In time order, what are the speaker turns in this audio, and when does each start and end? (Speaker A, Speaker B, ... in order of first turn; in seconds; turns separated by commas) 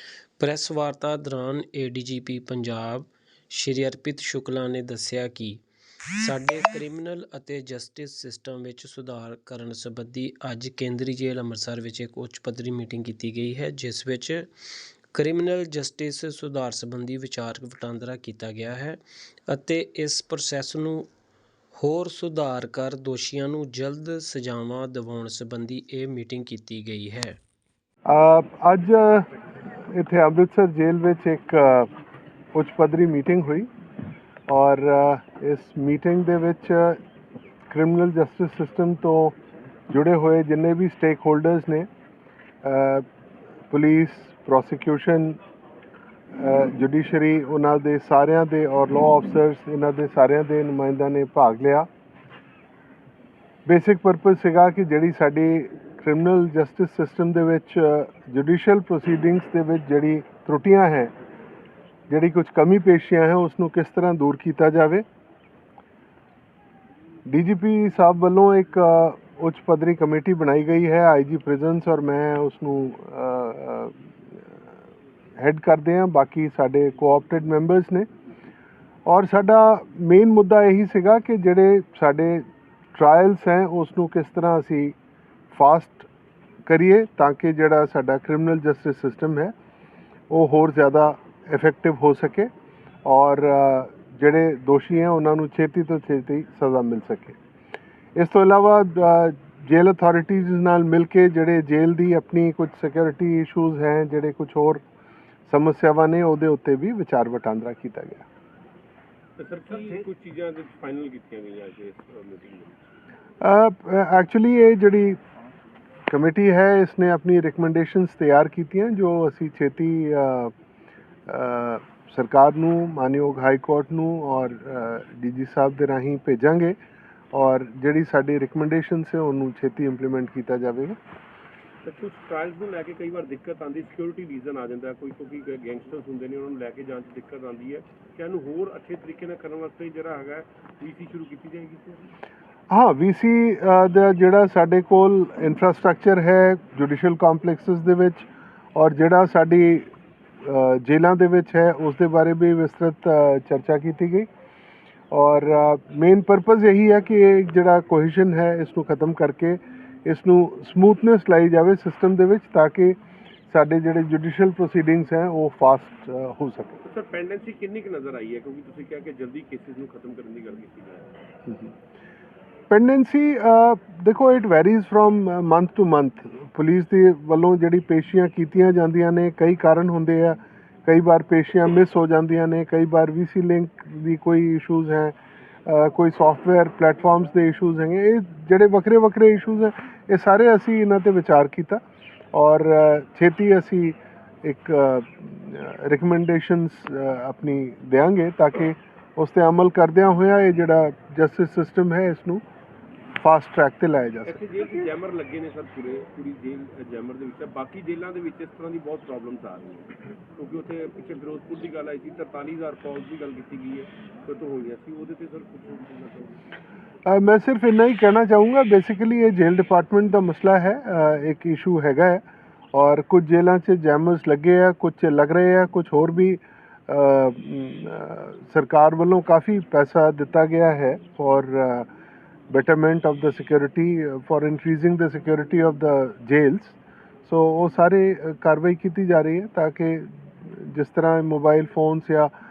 Speaker A: 0.4-5.6, Speaker A: 6.2-14.5, Speaker A: 15.1-21.1, Speaker A: 21.8-27.4, Speaker B: 28.1-29.3, Speaker B: 29.9-31.9, Speaker B: 32.5-33.7, Speaker B: 34.5-37.0, Speaker B: 37.7-39.4, Speaker B: 39.9-41.9, Speaker B: 42.6-43.0, Speaker B: 43.7-45.4, Speaker B: 46.4-51.9, Speaker B: 53.7-61.1, Speaker B: 62.1-65.0, Speaker B: 67.3-74.0, Speaker B: 75.4-78.1, Speaker B: 79.1-85.0, Speaker B: 85.5-86.1, Speaker B: 86.7-89.5, Speaker B: 90.3-92.5, Speaker B: 93.0-97.4, Speaker B: 98.2-104.8, Speaker B: 105.5-108.2, Speaker C: 109.4-113.0, Speaker B: 113.4-115.2, Speaker B: 116.1-120.5, Speaker B: 121.3-126.8, Speaker B: 127.3-131.0, Speaker C: 131.8-142.1, Speaker B: 142.7-149.9, Speaker B: 150.4-154.3, Speaker B: 155.1-163.0, Speaker B: 163.5-166.8, Speaker C: 166.8-171.1, Speaker B: 172.7-191.8, Speaker B: 192.3-202.4, Speaker B: 203.2-204.4, Speaker C: 204.3-216.4, Speaker B: 217.1-231.9, Speaker B: 232.5-242.3